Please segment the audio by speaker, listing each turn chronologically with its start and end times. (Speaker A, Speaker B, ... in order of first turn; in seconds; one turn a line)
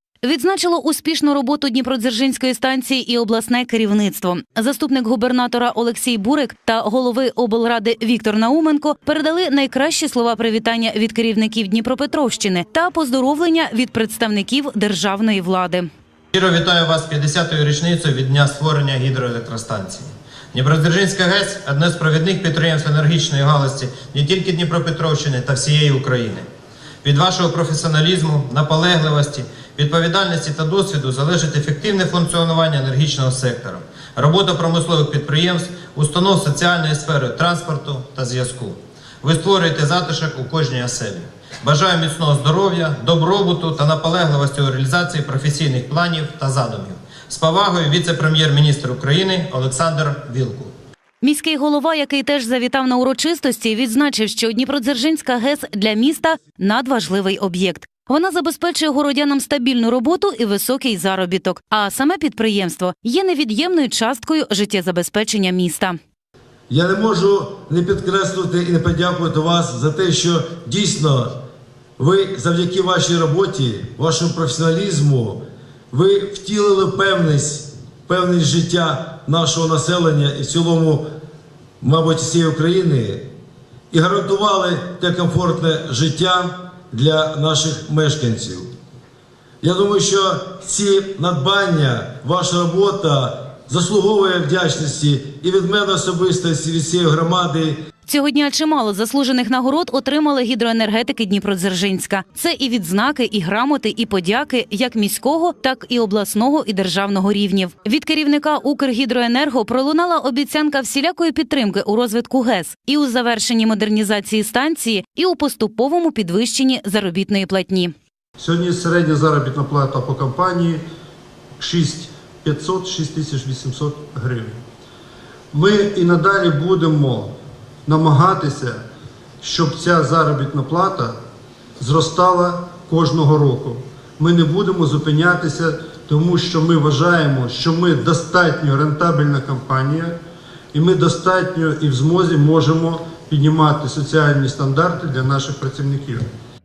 Speaker A: 0.2-15.9
Speaker B: 16.3-26.5
Speaker B: 27.0-50.7
Speaker A: 51.2-66.0
Speaker C: 66.7-71.4
Speaker C: 72.0-81.0
Speaker C: 81.8-83.3
Speaker C: 83.9-88.7
Speaker C: 89.6-97.8
Speaker A: 98.0-117.9
Speaker D: 118.4-120.8
Speaker D: 121.6-124.6
Speaker D: 125.5-127.3
Speaker D: 127.8-128.8
Speaker D: 129.4-131.2
Speaker D: 131.8-140.1
Speaker D: 140.7-146.2